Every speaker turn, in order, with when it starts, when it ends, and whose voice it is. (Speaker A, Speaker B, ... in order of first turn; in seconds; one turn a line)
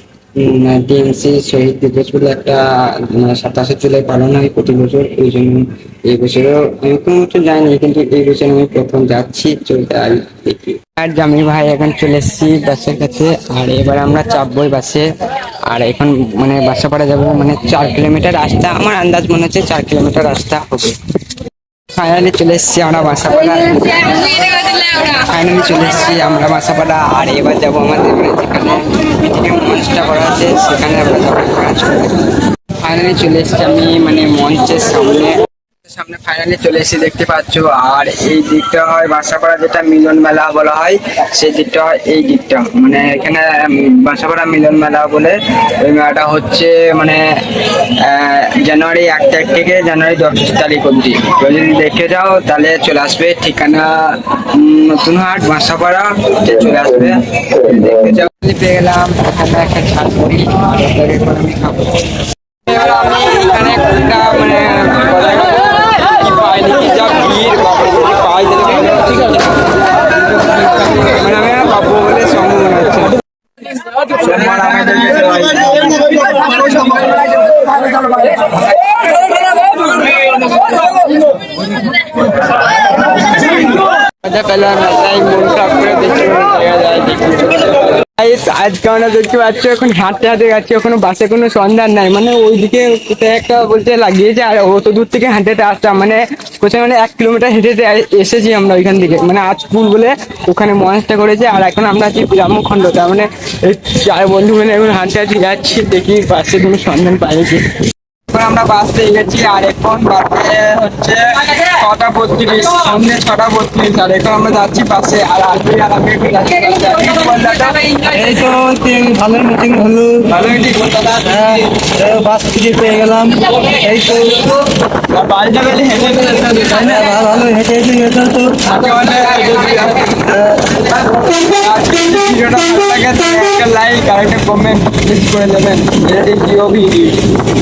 Speaker A: 0.4-15.1
Speaker A: 15.7-21.0
Speaker A: 21.9-32.3
Speaker A: 32.8-47.2
Speaker A: 47.8-62.1
Speaker A: 62.6-73.2
Speaker A: 74.1-76.3
Speaker A: 77.7-78.6
Speaker A: 83.3-107.7
Speaker A: 108.3-118.1
Speaker B: 118.1-120.5
Speaker A: 120.3-121.2
Speaker B: 121.1-124.6
Speaker A: 125.1-127.0
Speaker B: 126.8-128.8
Speaker A: 128.6-130.2
Speaker B: 130.2-130.8
Speaker A: 131.1-137.3